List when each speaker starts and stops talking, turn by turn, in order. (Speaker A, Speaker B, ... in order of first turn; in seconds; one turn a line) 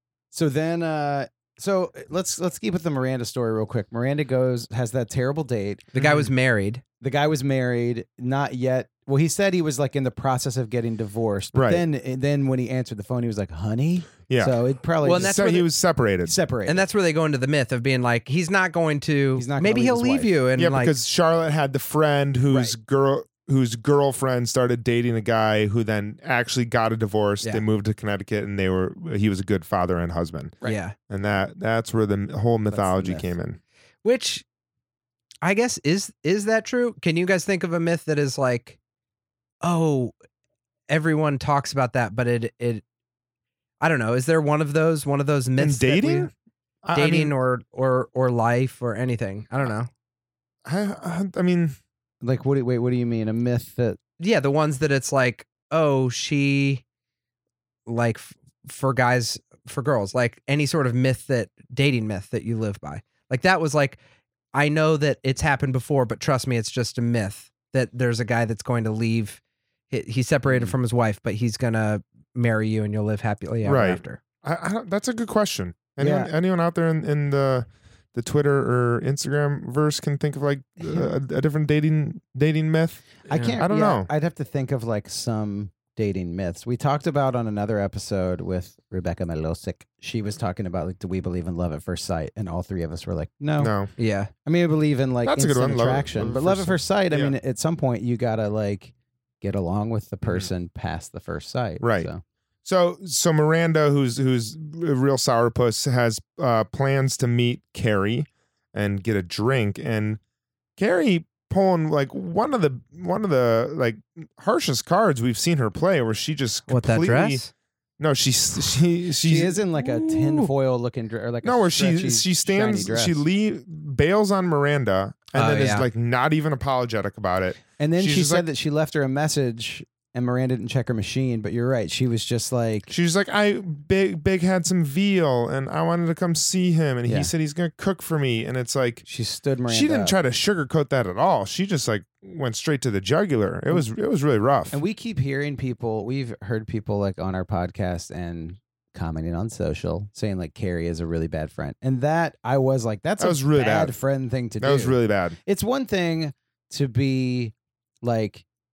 Speaker A: 0.3-6.3
Speaker B: 6.0-6.8
Speaker A: 7.0-15.7
Speaker C: 11.5-11.8
Speaker C: 14.3-16.4
Speaker B: 15.0-15.4
Speaker A: 16.2-16.9
Speaker B: 16.7-20.9
Speaker A: 19.4-20.3
Speaker C: 20.6-30.6
Speaker B: 30.6-30.9
Speaker C: 31.1-33.6
Speaker A: 32.7-33.3
Speaker B: 34.0-34.5
Speaker B: 35.4-38.8
Speaker B: 39.6-40.1
Speaker B: 40.9-42.8
Speaker B: 43.8-46.3
Speaker C: 45.6-46.3
Speaker C: 46.8-47.3
Speaker B: 46.9-49.9
Speaker C: 50.6-51.8
Speaker A: 52.2-54.0
Speaker B: 54.2-56.8
Speaker B: 57.9-64.0
Speaker B: 64.5-74.2
Speaker C: 73.6-84.1
Speaker A: 76.0-76.3
Speaker B: 83.3-83.6
Speaker A: 83.3-93.7
Speaker C: 93.6-93.9
Speaker B: 94.0-94.3
Speaker A: 94.5-102.2
Speaker C: 95.2-97.3
Speaker C: 101.8-102.1
Speaker C: 102.7-110.2
Speaker C: 110.8-117.5
Speaker B: 116.7-117.5
Speaker C: 118.0-120.5
Speaker A: 119.2-123.2
Speaker C: 121.4-128.5
Speaker B: 125.3-125.9
Speaker A: 127.8-132.9
Speaker C: 132.9-139.0
Speaker A: 137.1-137.3
Speaker A: 139.0-140.2
Speaker C: 139.7-144.8
Speaker A: 144.7-158.4
Speaker C: 153.2-153.9
Speaker C: 154.6-155.4